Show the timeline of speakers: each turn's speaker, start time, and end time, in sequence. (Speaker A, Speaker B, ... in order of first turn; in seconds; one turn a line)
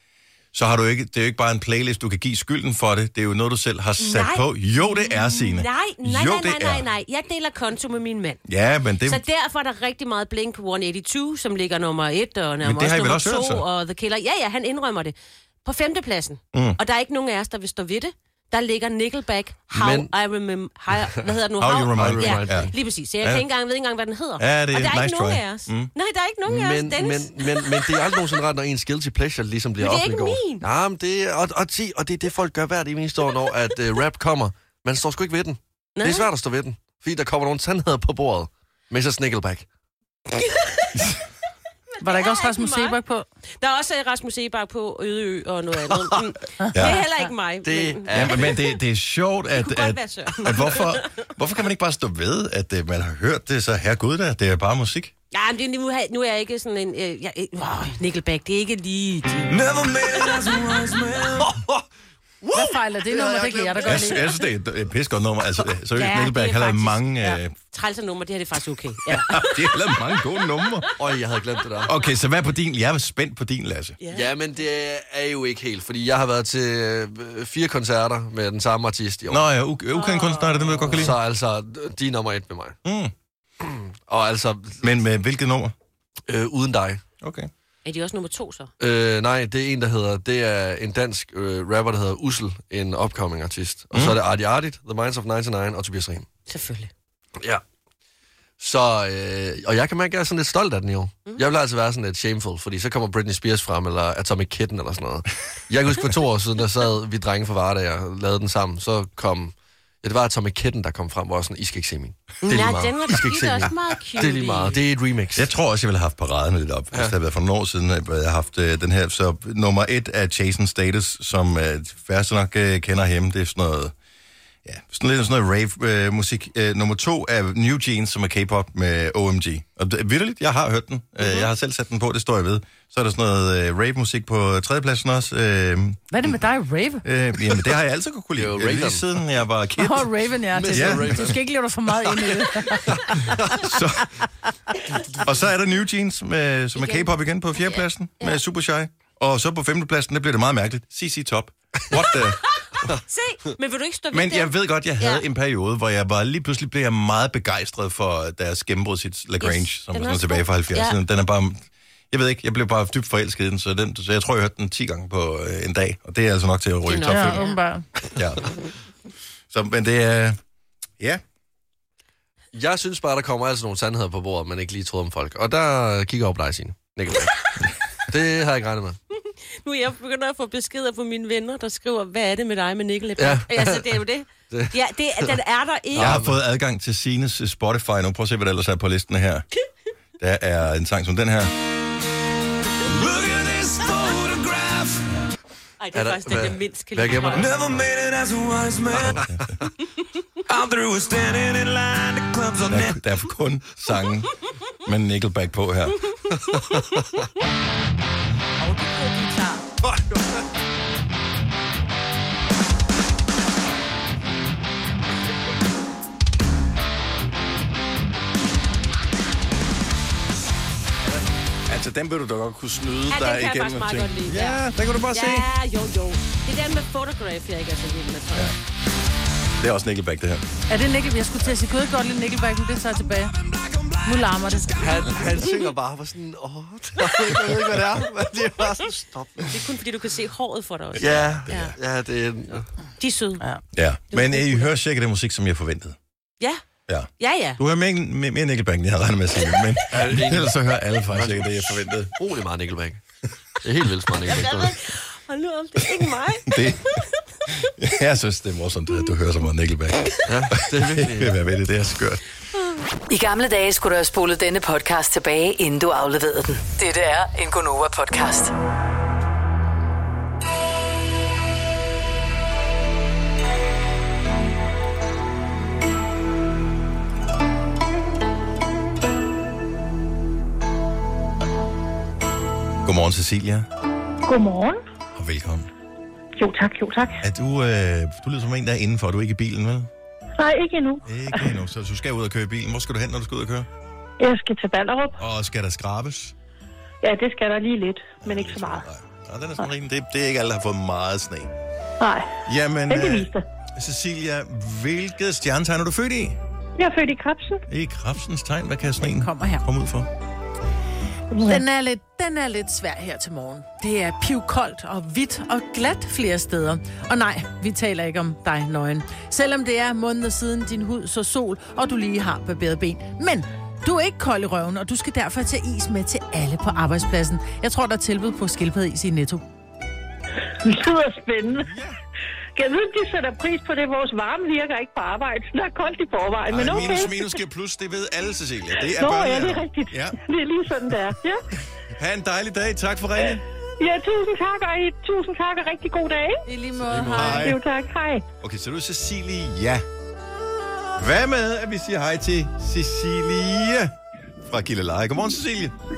Speaker A: 0.5-6.9
Speaker B: 4.0-8.4
Speaker A: 8.5-9.2
Speaker B: 9.0-28.3
Speaker A: 12.6-13.6
Speaker A: 16.5-16.8
Speaker C: 19.7-20.1
Speaker A: 21.6-23.4
Speaker C: 21.9-22.7
Speaker A: 24.4-25.9
Speaker C: 26.5-39.6
Speaker B: 29.8-30.6
Speaker B: 36.0-36.3
Speaker B: 40.5-40.8
Speaker B: 42.0-43.0
Speaker D: 42.0-43.2
Speaker B: 43.6-48.6
Speaker C: 45.9-46.2
Speaker A: 46.7-47.0
Speaker C: 47.6-48.6
Speaker A: 48.1-55.1
Speaker B: 49.5-51.2
Speaker B: 55.3-59.6
Speaker E: 59.5-61.5
Speaker C: 61.4-61.8
Speaker C: 62.4-64.1
Speaker D: 62.5-64.3
Speaker A: 63.9-67.5
Speaker B: 65.9-70.9
Speaker A: 69.1-70.9
Speaker C: 71.0-71.9
Speaker A: 71.8-74.0
Speaker B: 74.0-74.3
Speaker C: 74.1-79.4
Speaker A: 79.3-81.2
Speaker B: 79.9-81.0
Speaker C: 80.9-82.8
Speaker A: 82.8-83.1
Speaker C: 83.6-84.8
Speaker A: 84.8-85.7
Speaker C: 86.3-87.0
Speaker A: 87.2-87.5
Speaker B: 87.8-88.7
Speaker C: 88.8-96.3
Speaker A: 93.9-94.2
Speaker B: 96.5-96.9
Speaker C: 98.6-115.5
Speaker B: 112.4-114.8
Speaker A: 115.3-123.9
Speaker A: 124.6-136.3
Speaker B: 131.2-131.5
Speaker D: 136.1-137.1
Speaker A: 137.0-140.1
Speaker C: 138.3-139.1
Speaker D: 139.8-143.3
Speaker C: 140.5-141.4
Speaker A: 140.7-141.3
Speaker C: 142.1-143.8
Speaker A: 143.6-144.1
Speaker A: 145.2-152.5
Speaker B: 146.8-148.4
Speaker B: 152.6-155.2
Speaker A: 154.1-167.4
Speaker B: 159.4-161.0
Speaker B: 166.8-167.6
Speaker D: 167.1-167.8
Speaker A: 168.2-168.5
Speaker A: 169.5-170.4
Speaker C: 172.5-177.5
Speaker C: 178.1-179.0
Speaker B: 179.6-186.2
Speaker C: 183.2-183.9
Speaker C: 184.5-185.3
Speaker C: 185.9-186.4
Speaker A: 185.9-189.4
Speaker A: 190.2-191.5
Speaker E: 192.9-195.1
Speaker B: 195.8-197.6
Speaker C: 195.9-197.6
Speaker E: 197.4-199.1
Speaker A: 198.9-199.5
Speaker E: 200.5-203.0
Speaker A: 202.6-204.3
Speaker A: 204.8-206.0
Speaker C: 206.3-207.1
Speaker B: 208.9-209.4
Speaker D: 209.0-209.3
Speaker C: 209.9-210.1
Speaker A: 221.7-225.5
Speaker B: 223.1-228.5
Speaker A: 229.6-230.4
Speaker D: 230.7-233.3
Speaker E: 233.5-235.0
Speaker D: 234.0-235.1
Speaker C: 234.8-239.6
Speaker A: 237.3-238.1
Speaker B: 239.5-241.7
Speaker A: 240.9-241.7
Speaker C: 241.0-242.7
Speaker B: 243.0-243.4
Speaker A: 243.7-246.0
Speaker B: 244.1-244.7
Speaker A: 246.9-252.1
Speaker B: 247.2-247.6
Speaker C: 249.9-253.0
Speaker C: 253.6-254.8
Speaker B: 254.2-257.7
Speaker A: 256.5-256.9
Speaker A: 257.8-262.2
Speaker C: 260.3-261.4
Speaker F: 263.1-268.5
Speaker A: 282.8-283.7
Speaker G: 284.2-284.8
Speaker A: 285.1-285.7
Speaker G: 286.4-287.2
Speaker A: 287.2-289.9
Speaker G: 290.4-291.5
Speaker A: 291.1-293.7
Speaker G: 294.2-295.2
Speaker A: 295.2-296.3
Speaker G: 297.0-298.9
Speaker A: 298.2-301.5
Speaker G: 302.0-303.4
Speaker A: 302.4-306.4
Speaker G: 306.8-307.6
Speaker A: 307.7-310.1
Speaker D: 309.0-309.6
Speaker G: 311.3-311.6
Speaker D: 311.4-329.4
Speaker G: 330.6-331.7
Speaker A: 331.6-332.0
Speaker G: 332.5-337.3
Speaker A: 336.5-340.2
Speaker G: 338.9-341.4
Speaker A: 341.9-343.4
Speaker G: 343.8-346.4
Speaker D: 346.4-347.5
Speaker C: 346.9-347.4
Speaker A: 347.1-347.6
Speaker G: 347.3-348.2
Speaker A: 348.4-349.8
Speaker A: 351.0-353.9
Speaker A: 354.4-355.7